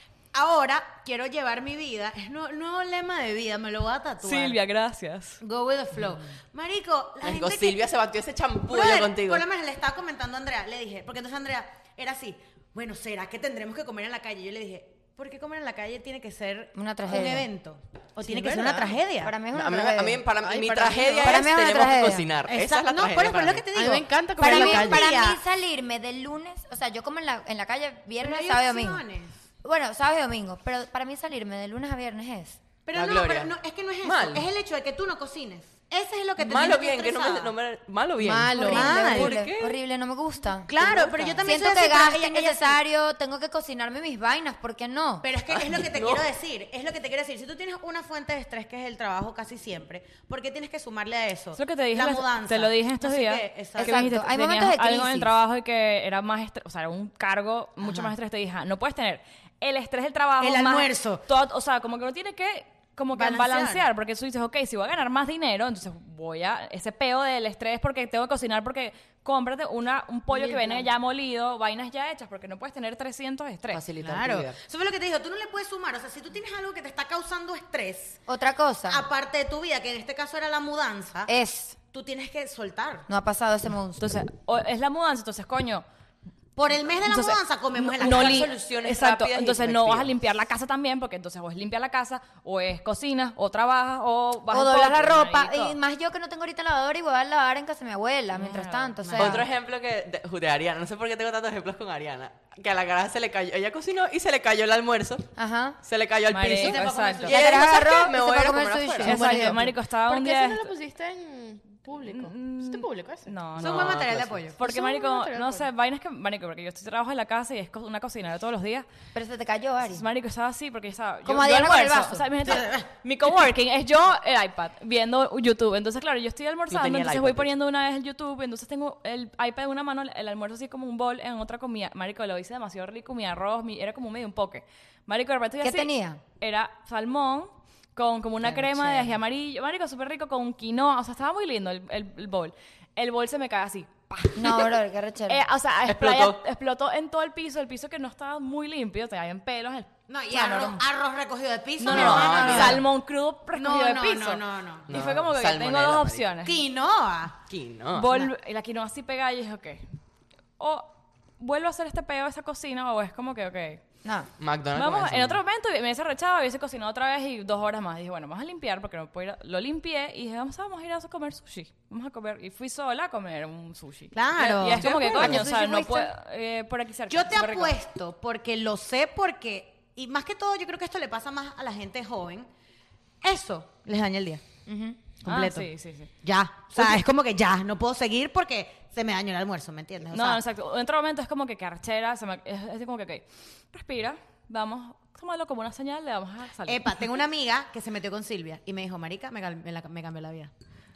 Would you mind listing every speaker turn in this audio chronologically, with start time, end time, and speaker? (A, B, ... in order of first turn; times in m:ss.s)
0:00.3-0:04.6 A
0:04.2-0:05.4 B
0:05.4-0:07.8 A
0:07.2-0:09.4 C
0:08.7-0:19.3 A
0:16.7-0:17.5 D
0:18.2-0:18.9 E
0:19.2-0:20.2 D
0:19.5-0:23.7 C
0:20.4-0:21.4 E
0:21.2-0:22.3 D
0:22.4-0:25.4 A
0:23.7-0:25.0 E
0:24.4-0:29.0 D
0:28.2-0:29.4 A
0:29.6-0:32.6 D
0:32.8-0:37.5 A
0:32.9-0:34.5 C
0:36.4-0:39.8 C
0:38.2-0:39.0 E
0:38.5-0:45.3 D
0:38.6-0:39.4 A
0:40.6-0:42.8 A
0:40.9-0:41.4 C
0:45.2-0:54.1 A
0:45.5-0:46.2 C
0:51.6-1:13.8 B
0:53.8-0:55.3 D
0:57.8-0:58.1 A
1:00.4-1:01.2 A
1:03.1-1:03.8 A
1:13.7-1:14.6 C
1:14.0-1:18.2 A
1:18.3-1:19.1 D
1:18.9-1:21.3 A
1:21.3-1:21.8 D
1:21.9-1:23.1 A
1:23.1-1:24.1 D
1:24.0-1:25.8 B
1:26.6-1:28.5 A
1:27.0-1:35.8 B
1:28.0-1:30.1 C
1:34.5-1:39.5 D
1:38.3-1:39.2 B
1:39.2-1:45.3 C
1:45.4-1:45.8 D
1:45.8-1:49.3 C
1:46.3-1:47.3 B
1:46.6-1:47.4 A
1:47.2-1:49.5 D
1:49.0-1:50.7 B
1:49.0-1:53.3 E
1:52.0-1:54.0 B
1:53.5-1:54.5 C
1:53.6-1:54.6 A
1:54.6-1:58.8 B
1:54.6-1:55.7 E
1:59.1-2:00.0 D
1:59.8-2:24.8 B
2:01.2-2:02.3 D
2:02.5-2:02.8 A
2:06.7-2:07.5 C
2:15.6-2:16.2 D
2:18.8-2:19.0 A
2:24.3-2:25.4 D
2:25.3-2:30.8 B
2:25.8-2:26.4 C
2:30.1-2:32.8 A
2:31.8-2:36.6 B
2:31.8-2:32.8 C
2:33.5-2:34.9 A
2:34.9-2:36.2 C
2:36.4-2:37.4 A
2:37.5-2:38.2 C
2:37.9-2:39.8 B
2:40.6-2:43.8 B
2:44.0-2:44.3 D
2:44.4-2:45.4 C
2:44.7-2:57.8 B
2:54.1-2:55.5 A
2:55.1-2:56.1 D
2:57.1-3:02.5 A
3:03.2-3:04.4 A
3:04.6-3:05.0 D
3:05.2-3:05.7 A
3:05.2-3:06.1 B
3:06.2-3:10.4 A
3:10.1-3:16.9 B
3:16.6-3:20.5 A